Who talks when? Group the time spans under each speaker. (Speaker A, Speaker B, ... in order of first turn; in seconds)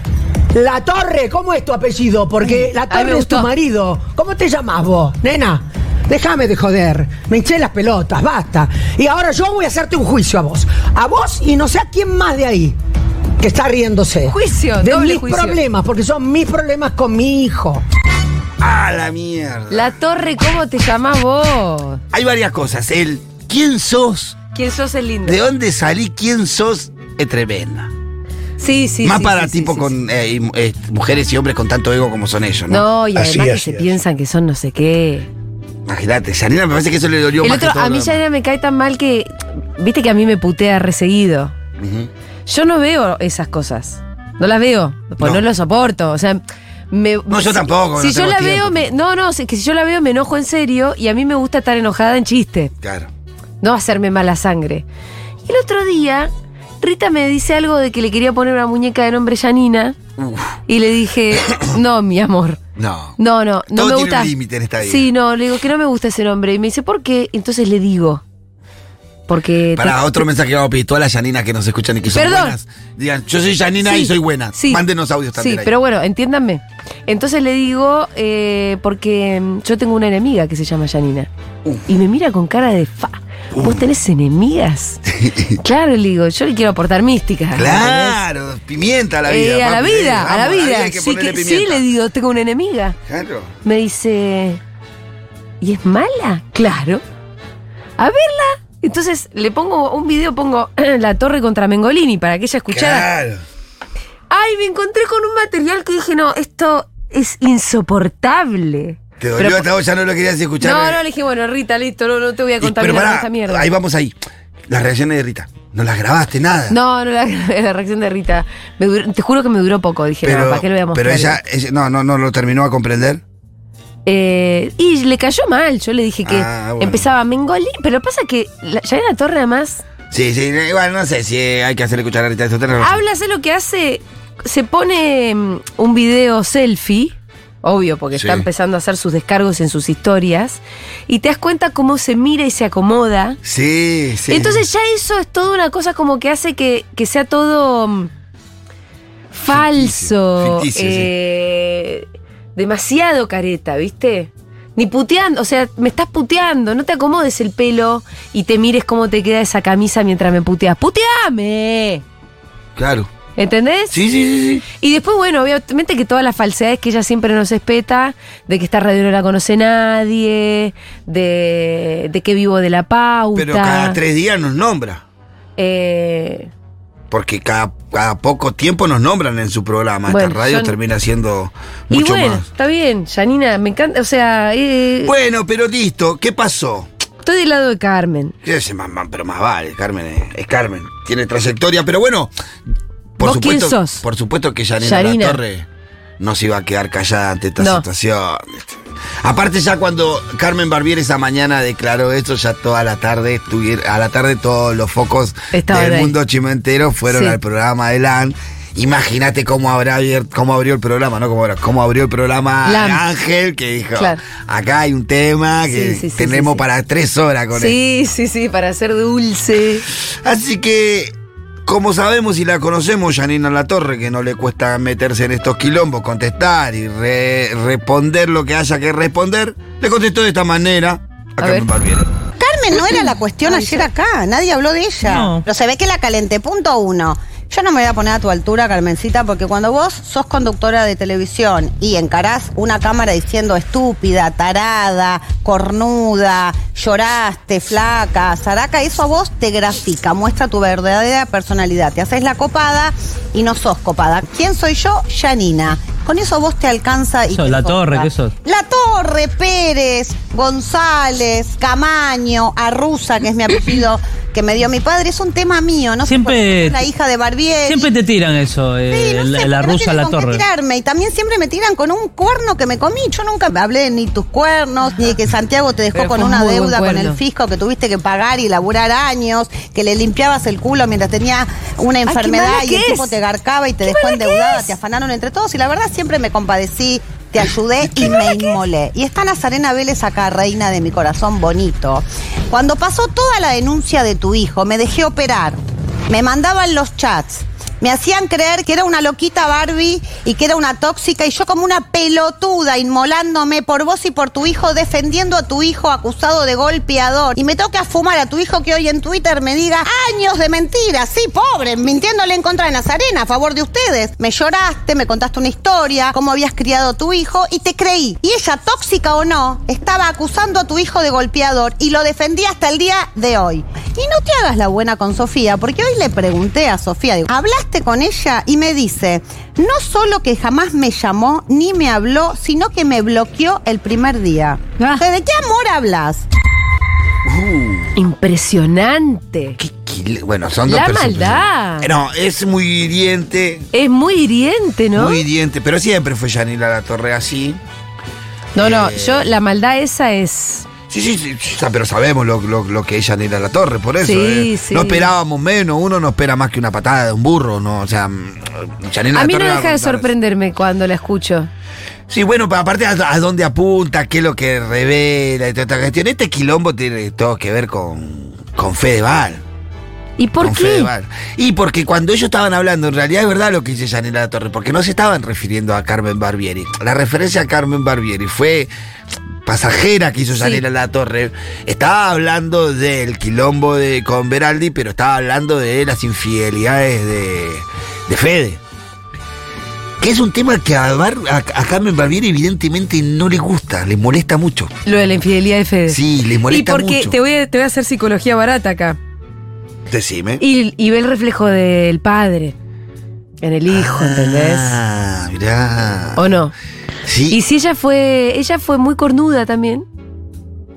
Speaker A: 0.5-12.8, 13.4-17.8
Speaker B: 2.4-3.5, 14.3-15.6, 19.7-22.0, 24.5-25.4, 28.6-29.9, 32.7-35.3, 37.4-41.5, 42.5-52.7, 53.6-54.8, 55.4-56.3, 56.8-60.0, 60.7-62.6, 63.2-68.2, 69.3-70.2, 72.1-72.6, 73.8-74.8, 75.3-81.3, 81.9-85.0, 85.6-88.2, 89.2-93.0, 93.6-94.6, 95.6-97.0, 98.0-103.1, 104.3-109.7, 110.6-113.7, 116.7-121.4, 124.0-129.8, 132.8-143.4, 144.3-148.1, 149.3-162.0, 163.4-163.9, 164.8-174.0, 175.6-176.5, 180.1-180.7, 181.9-185.1, 187.2-188.3, 193.2-194.0, 194.8-195.4, 197.6-197.8, 205.5-206.1, 207.1-207.4, 212.6-213.0, 215.7-216.6, 217.5-219.8, 231.4-231.7, 233.4-233.9, 275.9-277.2, 282.1-283.1, 283.8-284.7, 337.9-339.6, 340.6-341.9, 343.7-345.2, 348.5-350.7, 354.0-355.1, 359.1-361.5, 370.2-370.9, 380.3-380.6, 394.9-399.0, 400.4-402.5, 403.4-404.7, 406.1-406.5, 407.3-409.9
Speaker C: 18.6-19.9, 22.1-24.4, 25.2-27.9, 29.0-34.0, 35.9-38.2, 41.8-42.1, 47.3-48.9, 52.8-53.1, 60.2-60.6, 61.3-61.7, 62.8-65.1, 69.8-75.7, 83.5-83.8, 85.1-85.6, 87.5-91.8, 93.1-93.5, 102.7-103.4, 109.2-111.0, 112.6-114.2, 114.7-116.8, 120.2-123.2, 126.2-127.1, 130.1-133.0, 138.1-138.5, 143.4-144.6, 149.5-151.1, 162.8-163.1, 163.9-164.6, 173.3-175.0, 177.1-182.4, 185.0-186.9, 188.4-192.3, 193.2-195.7, 196.2-217.8, 220.0-221.1, 221.6-232.1, 337.2-337.9, 339.6-343.7, 344.9-347.6, 348.6-349.3, 350.9-360.1, 362.1-369.4, 370.4-378.7, 379.4-388.6, 390.0-394.7, 395.9-397.2, 399.9-400.4, 403.7-406.2, 407.1-407.4
Speaker D: 232.4-267.9, 268.9-336.2
Speaker E: 235.1-235.4, 257.3-258.3, 266.0-266.8, 267.6-270.4